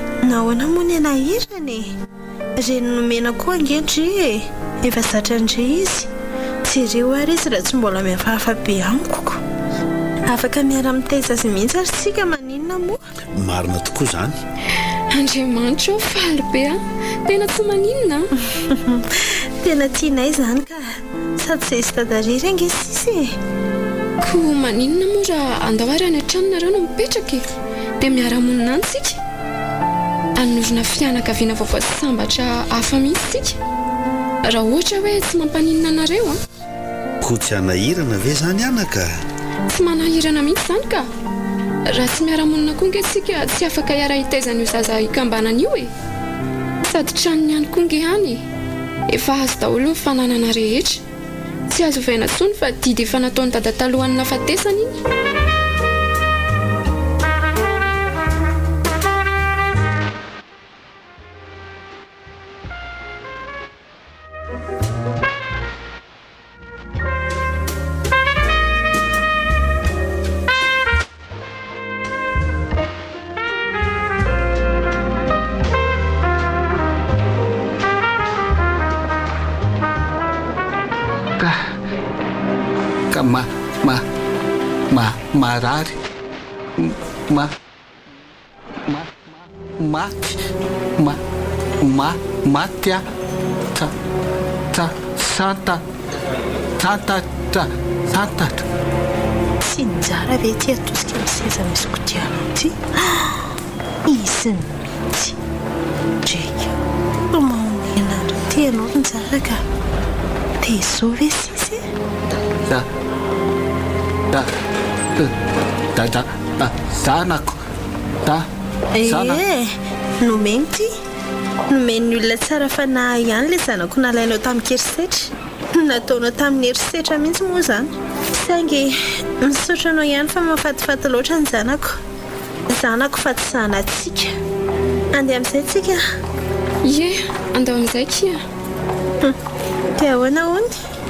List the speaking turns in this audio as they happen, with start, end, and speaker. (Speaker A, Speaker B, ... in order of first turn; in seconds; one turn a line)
Speaker A: 0.2-1.9
Speaker A: 2.6-6.1
Speaker A: 6.7-9.4
Speaker A: 10.3-13.0
Speaker B: 13.3-14.4
Speaker C: 15.1-18.3
Speaker A: 18.5-23.3
Speaker C: 24.2-27.4
Speaker C: 28.0-29.2
Speaker C: 30.4-33.6
Speaker C: 34.4-36.4
Speaker B: 37.2-39.1
Speaker C: 39.7-41.1
Speaker C: 41.9-45.9
Speaker C: 46.8-48.5
Speaker C: 49.1-51.0
Speaker C: 51.7-55.0
Speaker D: 81.4-81.7
Speaker D: 83.1-84.0
Speaker D: 84.9-86.0
Speaker D: 86.8-87.5
Speaker D: 88.9-90.4
Speaker D: 91.8-93.0
Speaker D: 94.7-95.8
Speaker D: 96.8-98.6
Speaker A: 99.6-103.4
Speaker A: 104.1-105.3
Speaker A: 106.2-106.7
Speaker A: 107.3-109.6
Speaker A: 110.6-111.8
Speaker D: 115.9-117.5
Speaker A: 119.0-120.9
Speaker D: 119.0-119.4
Speaker A: 121.7-132.0
Speaker A: 132.7-134.3
Speaker A: 135.1-136.0
Speaker C: 136.8-138.4
Speaker A: 140.0-140.7